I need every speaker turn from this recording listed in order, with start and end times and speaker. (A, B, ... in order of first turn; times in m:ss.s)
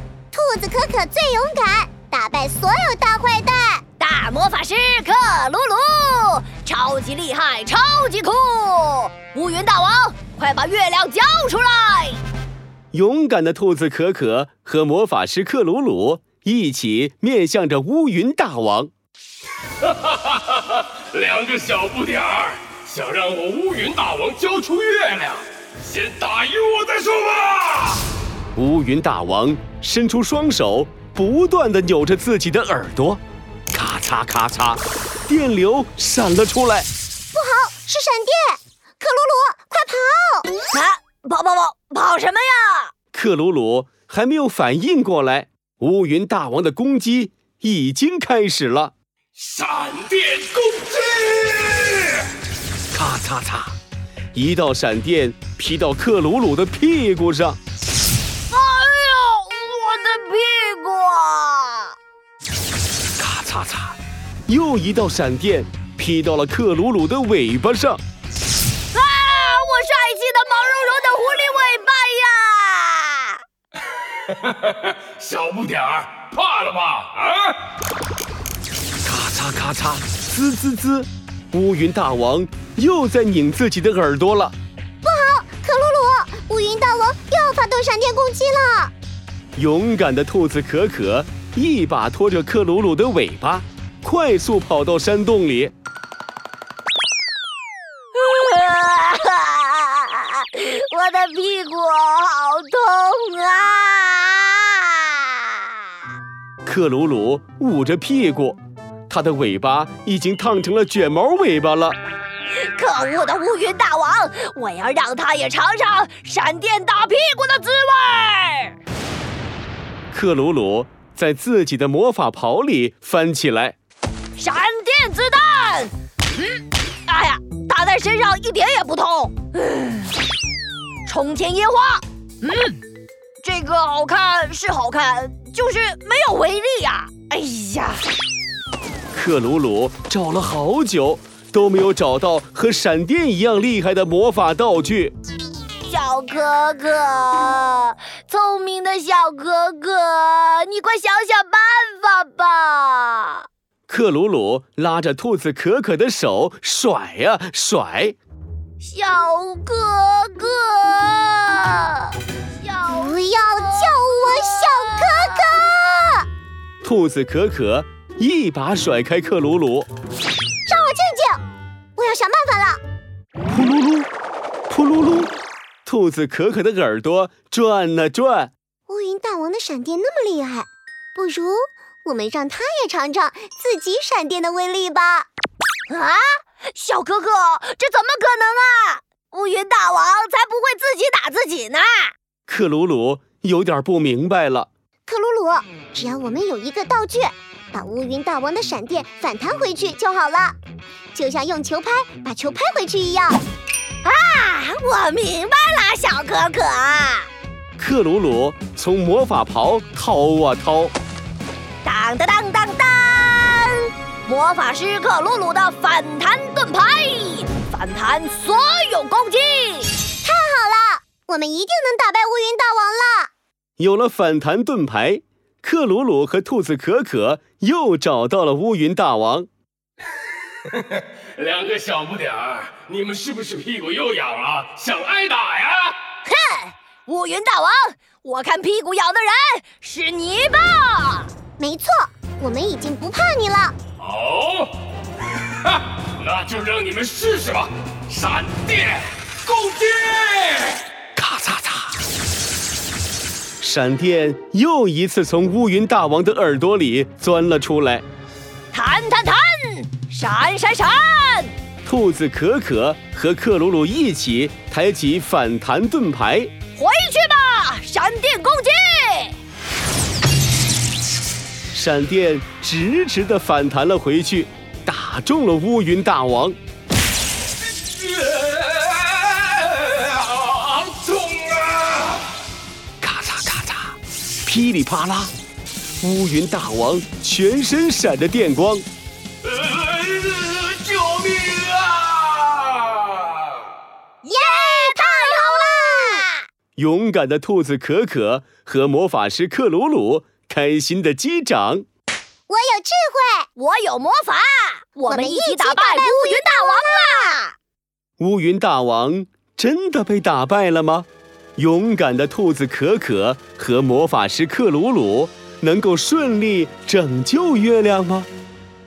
0:00.3-0:03.8 A
0:04.0-0:12.2 B
0:12.9-0:18.9 C
0:19.8-0:28.0 D
0:28.6-0:36.9 C
0:37.3-0:40.5 A
0:40.7-0:42.9 B
0:43.1-0:48.9 C
0:49.4-0:52.3 D
0:52.9-0:53.7 C
0:54.4-0:57.6 C
0:58.5-1:02.0 B
1:03.2-1:04.0 C
1:04.5-1:08.0 C
1:08.9-1:13.4 B
1:14.3-1:17.6 D
1:19.0-1:24.5 C
1:25.0-1:28.9 A
1:29.6-1:35.7 C
1:38.2-1:45.8 B
1:46.6-1:48.6 C
1:49.1-1:52.0 C
1:52.7-1:58.8 B
2:00.1-2:03.8 C
2:04.4-2:10.2 B
2:11.1-2:12.8 B
2:13.4-2:18.0 B
2:19.1-2:25.1 C
2:25.8-2:33.5 B
2:33.9-2:38.2 C
2:38.8-2:43.2 B
2:42.9-2:46.3 A
2:43.8-2:45.2 B
2:46.8-2:49.9 C
2:50.7-2:51.4 A
2:52.0-2:52.8 A
2:53.5-2:54.1 C
2:54.7-2:55.3 C
2:55.8-2:58.5 C
2:58.9-3:05.3 A
3:05.9-3:12.1 B
3:12.5-3:14.7 C
3:15.1-3:20.6 A
3:21.1-3:23.4 A
3:24.0-3:27.3 B
3:27.8-3:30.9 C
3:31.8-3:39.9 B
3:40.2-3:43.3 A
3:43.8-3:49.5 C
3:50.7-3:56.0 D
3:56.2-4:01.3 B
4:01.6-4:03.8 A
4:04.0-4:04.8 D
4:05.6-4:10.8 D
4:11.2-4:11.8 C
4:13.6-4:18.0 C
4:18.7-4:21.5 B
4:21.8-4:26.5 C
4:26.8-4:29.4 B
4:31.7-4:36.6 C
4:38.0-4:42.2 D
4:43.0-4:45.3 C
4:46.0-4:48.8 C
4:49.5-4:53.3 D
4:54.2-4:56.3 B
4:54.3-4:56.3 A
4:56.8-5:01.8 C
5:02.5-5:03.5 A
5:03.6-5:07.4 B
5:05.1-5:07.5 A
5:08.2-5:18.3 C